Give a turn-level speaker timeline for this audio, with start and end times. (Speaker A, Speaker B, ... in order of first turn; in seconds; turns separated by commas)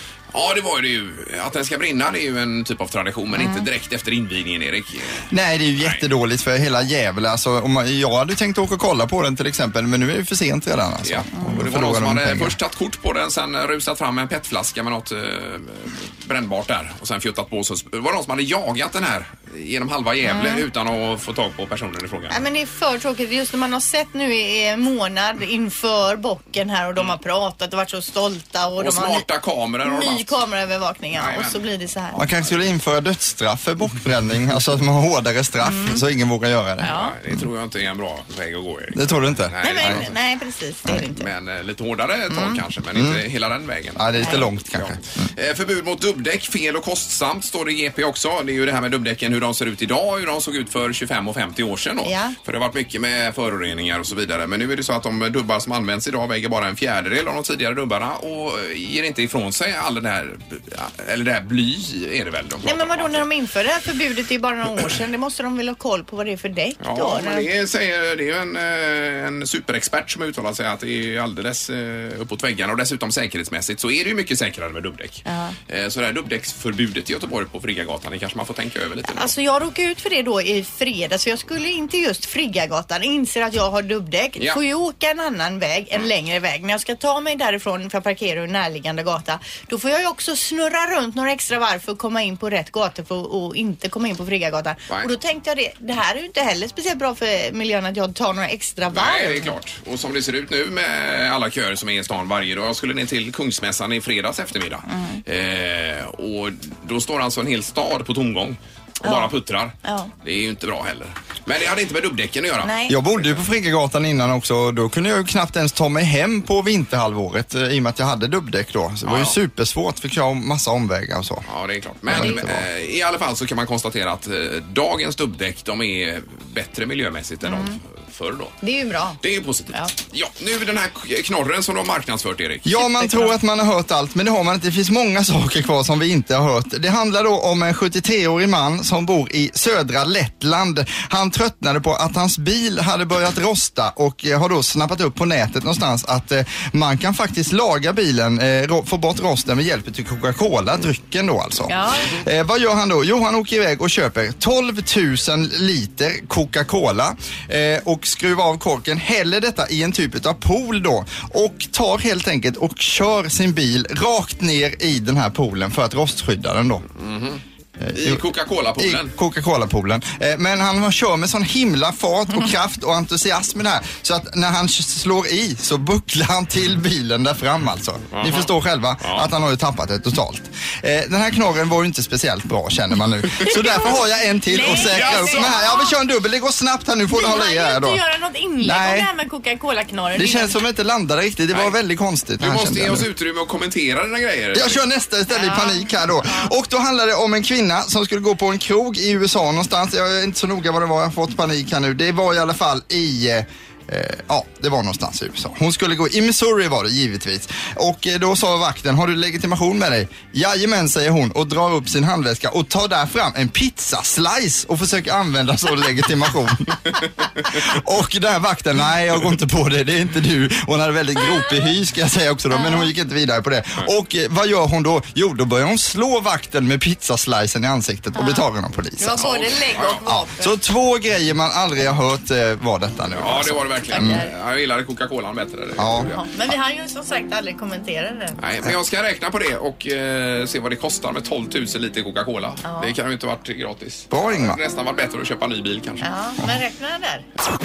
Speaker A: 0.3-5.3, Speaker B: 3.4-3.7, Speaker C: 5.3-12.6, Speaker A: 5.8-6.0, Speaker A: 11.0-22.4, Speaker B: 20.2-20.7, Speaker B: 22.3-29.2, Speaker A: 28.8-30.4, Speaker B: 29.9-32.2, Speaker A: 31.1-31.6, Speaker C: 32.1-36.9, Speaker B: 35.6-36.0, Speaker B: 36.8-37.1, Speaker A: 36.9-40.1, Speaker C: 38.9-40.1, Speaker B: 39.6-41.3, Speaker A: 41.0-63.3, Speaker B: 42.3-42.6, Speaker C: 43.0-43.2, Speaker C: 44.0-45.3, Speaker B: 44.2-44.5, Speaker B: 52.0-52.4, Speaker B: 62.6-67.5, Speaker A: 66.8-79.3, Speaker B: 75.3-75.5, Speaker B: 79.1-99.5, Speaker A: 98.9-113.3, Speaker B: 104.9-105.2, Speaker B: 109.0-110.1, Speaker B: 112.6-113.0, Speaker C: 112.9-121.5, Speaker A: 119.0-119.3, Speaker A: 121.5-128.6, Speaker C: 122.1-122.6, Speaker B: 122.1-122.4, Speaker B: 127.4-127.8, Speaker B: 128.6-129.2, Speaker A: 129.2-132.8, Speaker C: 132.7-166.8, Speaker B: 132.8-133.3, Speaker B: 151.7-152.1, Speaker A: 167.0-167.4, Speaker C: 167.8-168.2, Speaker A: 167.9-169.1, Speaker C: 168.8-188.0, Speaker A: 178.1-178.5, Speaker A: 179.0-179.3, Speaker B: 183.4-185.9, Speaker A: 184.7-185.6, Speaker B: 187.1-190.6, Speaker C: 188.6-189.1, Speaker C: 190.2-193.1, Speaker A: 192.4-194.8, Speaker C: 194.5-216.9, Speaker B: 195.3-196.5, Speaker C: 217.4-229.3, Speaker B: 222.5-222.9, Speaker B: 228.2-228.5, Speaker B: 229.0-230.6, Speaker A: 229.2-230.0, Speaker C: 230.1-234.2, Speaker A: 233.1-236.2, Speaker B: 233.9-234.3, Speaker C: 235.8-236.1, Speaker B: 236.1-238.4, Speaker A: 238.4-246.1, Speaker B: 242.6-242.9, Speaker C: 244.1-244.6, Speaker B: 246.0-247.2